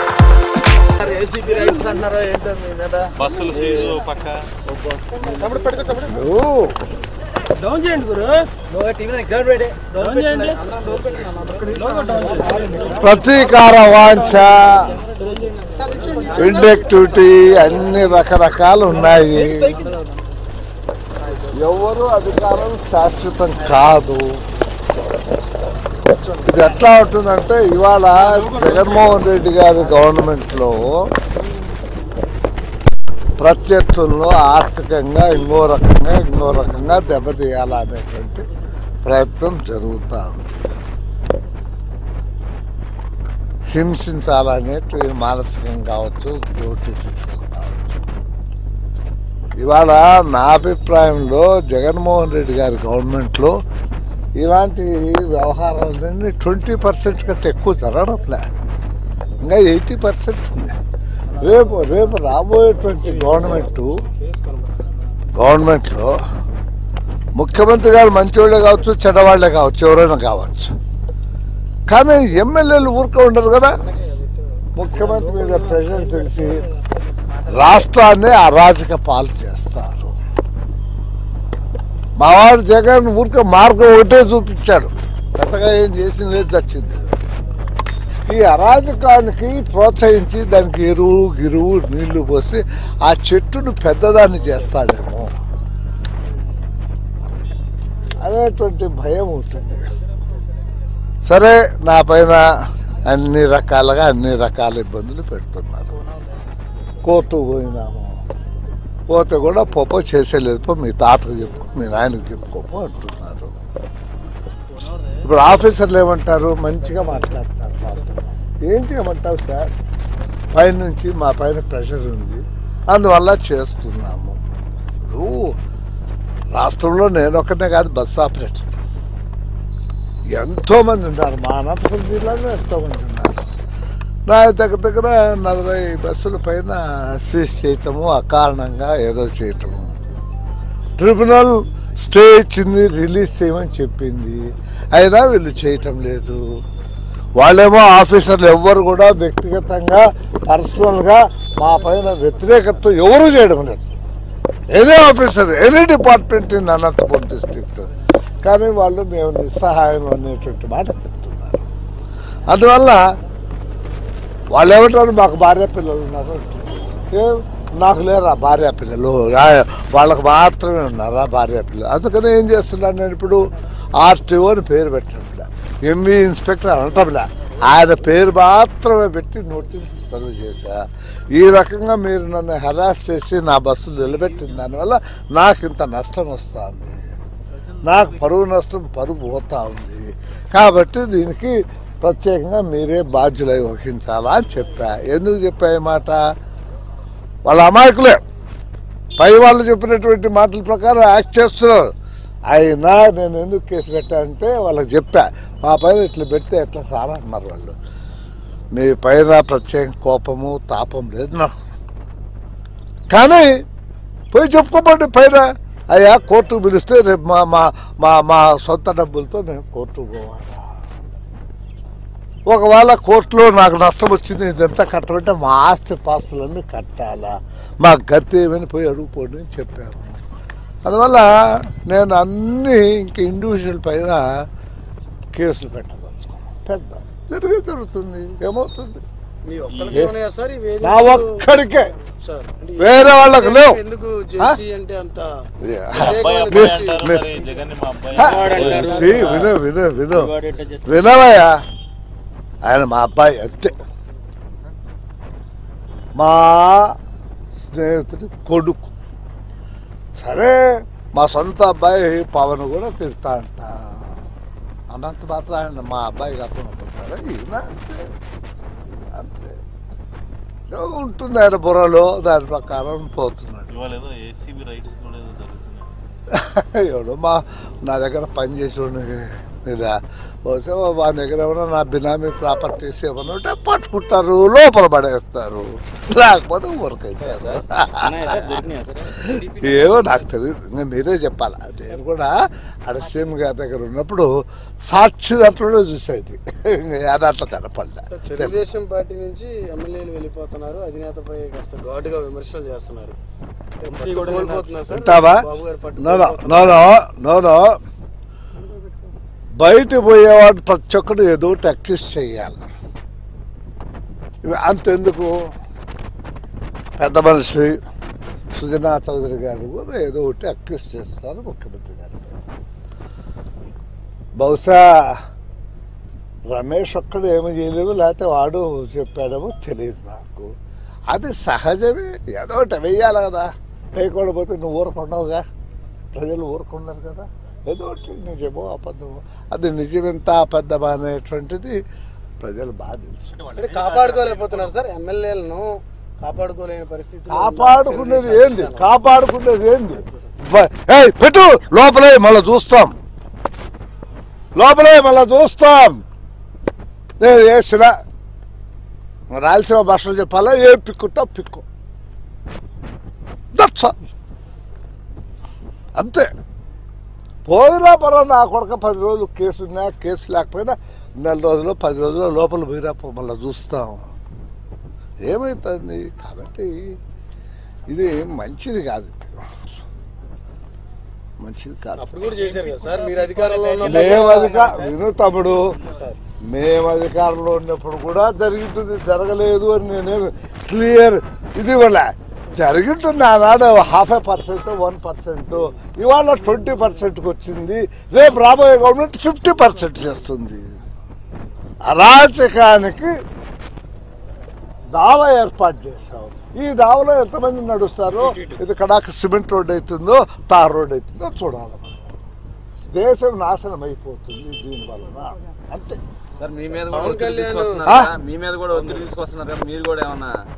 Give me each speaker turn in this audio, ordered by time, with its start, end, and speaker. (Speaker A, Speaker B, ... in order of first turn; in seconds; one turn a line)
Speaker A: 1.0-4.0
Speaker B: 3.1-4.5
Speaker A: 4.7-5.9
Speaker C: 6.0-6.8
Speaker D: 7.7-13.2
Speaker C: 12.9-15.0
Speaker D: 15.2-16.4
Speaker E: 16.1-16.7
Speaker C: 16.3-19.8
Speaker D: 19.5-19.9
Speaker C: 21.5-24.3
Speaker C: 26.3-30.9
Speaker D: 28.4-28.7
Speaker C: 33.4-38.5
Speaker C: 39.0-40.5
Speaker C: 43.7-48.0
Speaker C: 49.6-53.5
Speaker C: 54.4-58.5
Speaker C: 59.4-60.8
Speaker C: 61.4-64.0
Speaker C: 65.3-66.2
Speaker C: 67.3-70.7
Speaker C: 71.9-73.8
Speaker E: 73.7-74.5
Speaker C: 74.8-76.6
Speaker C: 77.5-80.1
Speaker C: 82.2-87.1
Speaker C: 88.3-95.3
Speaker C: 98.2-99.9
Speaker C: 101.2-102.4
Speaker C: 103.1-105.9
Speaker C: 107.0-108.2
Speaker C: 109.1-113.5
Speaker C: 115.2-119.7
Speaker C: 120.5-124.4
Speaker C: 125.1-125.5
Speaker C: 126.5-128.8
Speaker C: 130.3-133.5
Speaker C: 134.3-139.9
Speaker C: 141.0-146.4
Speaker C: 147.4-154.0
Speaker C: 154.7-157.9
Speaker C: 158.4-161.6
Speaker C: 162.5-163.0
Speaker C: 164.5-173.4
Speaker C: 174.0-180.8
Speaker C: 181.3-187.0
Speaker C: 187.8-196.2
Speaker C: 197.4-198.2
Speaker C: 199.2-201.9
Speaker C: 202.5-207.8
Speaker C: 208.7-211.6
Speaker C: 213.1-213.5
Speaker C: 214.3-220.7
Speaker C: 222.5-230.2
Speaker C: 230.8-234.2
Speaker C: 235.3-239.0
Speaker E: 239.4-241.3
Speaker C: 239.9-240.1
Speaker C: 240.8-241.9
Speaker E: 242.1-245.3
Speaker C: 242.8-243.8
Speaker C: 245.6-247.3
Speaker E: 245.9-247.1
Speaker B: 246.1-249.5
Speaker C: 248.1-251.6
Speaker A: 248.2-249.5
Speaker E: 248.4-249.2
Speaker A: 250.1-251.0
Speaker C: 252.7-253.8
Speaker C: 256.2-256.9
Speaker C: 257.6-258.9
Speaker C: 260.1-260.6
Speaker C: 261.1-263.7
Speaker C: 264.9-268.1
Speaker C: 269.1-269.6
Speaker C: 270.7-273.8
Speaker B: 273.7-275.9
Speaker C: 276.3-294.3
Speaker A: 287.2-289.2
Speaker C: 294.9-298.6
Speaker E: 298.1-303.2
Speaker E: 303.8-306.9
Speaker D: 303.9-304.8
Speaker C: 304.9-305.4
Speaker C: 306.0-307.8
Speaker C: 309.6-312.6
Speaker C: 314.4-315.4
Speaker C: 317.0-317.8
Speaker C: 318.5-322.5
Speaker C: 324.4-325.2
Speaker C: 326.5-330.5
Speaker C: 331.1-335.4
Speaker C: 336.1-341.8
Speaker C: 342.4-343.4
Speaker E: 343.6-345.7
Speaker E: 346.2-348.9
Speaker C: 347.3-352.9
Speaker E: 349.9-350.3
Speaker C: 354.6-356.0
Speaker C: 357.2-357.9
Speaker C: 359.3-361.6
Speaker C: 363.5-364.0
Speaker C: 366.0-366.3
Speaker C: 367.5-374.0
Speaker C: 375.2-376.9
Speaker C: 377.9-379.4
Speaker C: 381.4-382.3
Speaker E: 382.0-384.7
Speaker D: 382.4-385.0
Speaker C: 383.8-385.6
Speaker E: 385.9-386.2
Speaker C: 386.5-400.7
Speaker C: 401.9-403.1
Speaker C: 404.9-412.0
Speaker C: 412.9-416.0
Speaker A: 416.4-420.3
Speaker E: 416.9-418.0
Speaker C: 417.9-418.1